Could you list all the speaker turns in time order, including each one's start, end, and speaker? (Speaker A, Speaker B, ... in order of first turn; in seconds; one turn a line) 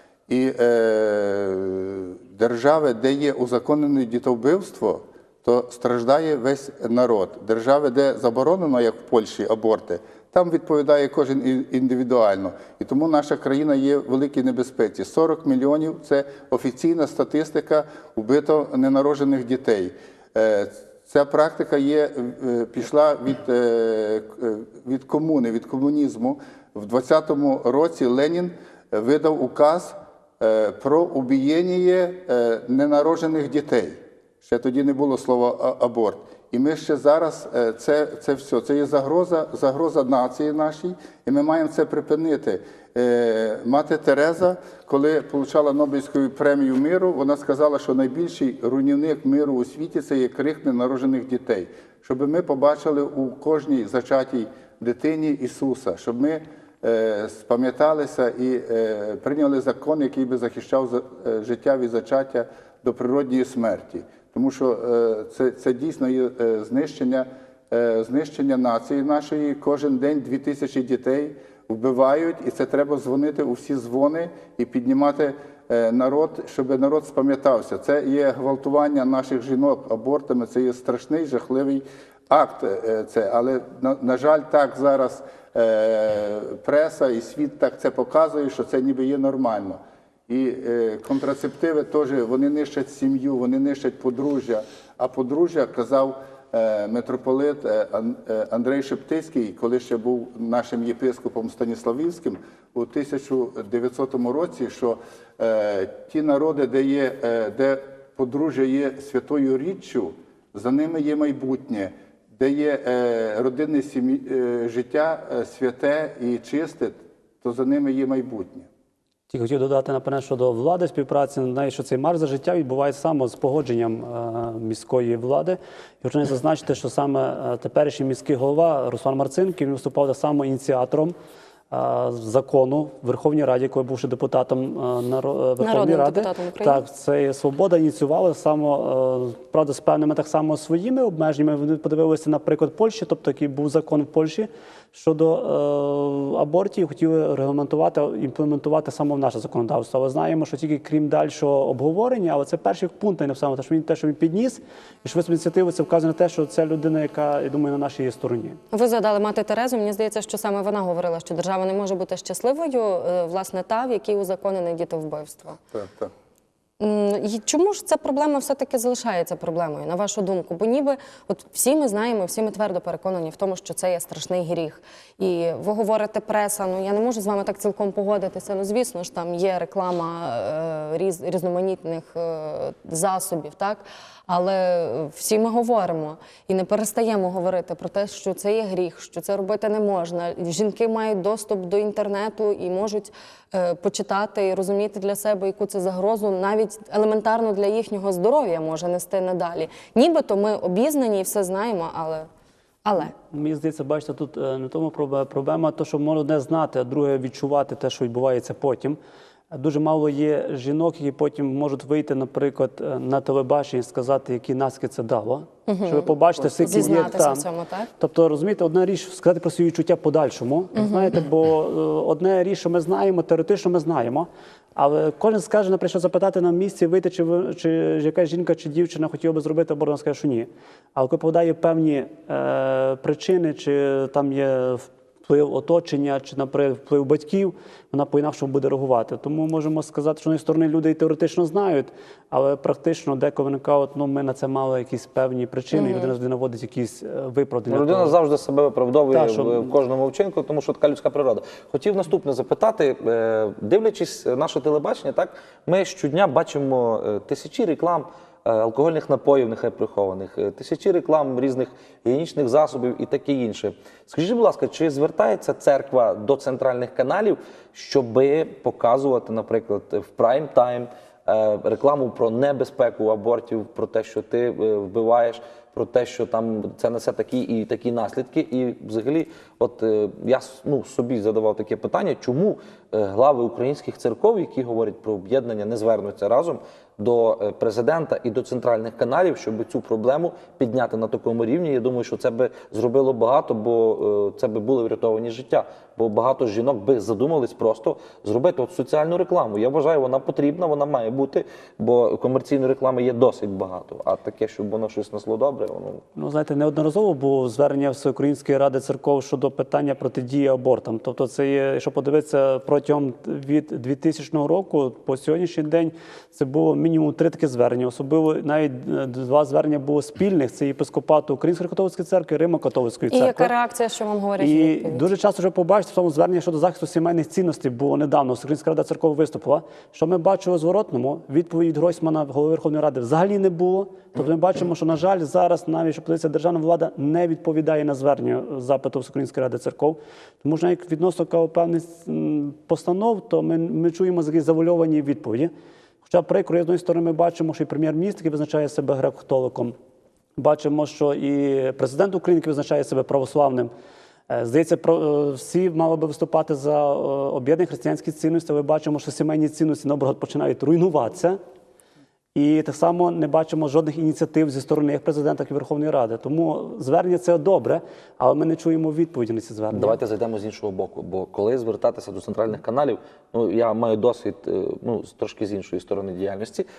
Speaker A: 0.3-118.7
Speaker B: 119.3-131.1
Speaker B: 131.7-158.6
Speaker C: 135.6-136.8
Speaker C: 158.7-165.6
Speaker A: 165.7-166.1
Speaker C: 166.8-202.2
Speaker C: 202.8-203.1
Speaker B: 203.3-209.0
Speaker B: 209.5-217.4
Speaker C: 215.7-217.9
Speaker B: 218.0-248.2
Speaker C: 220.8-221.1
Speaker C: 245.7-246.1
Speaker D: 247.7-306.0
Speaker B: 249.1-249.6
Speaker B: 306.1-323.5
Speaker C: 323.1-325.1
Speaker B: 324.4-345.5
Speaker B: 346.0-349.7
Speaker B: 350.4-353.7
Speaker B: 354.3-361.4
Speaker B: 362.3-370.0
Speaker D: 369.7-376.6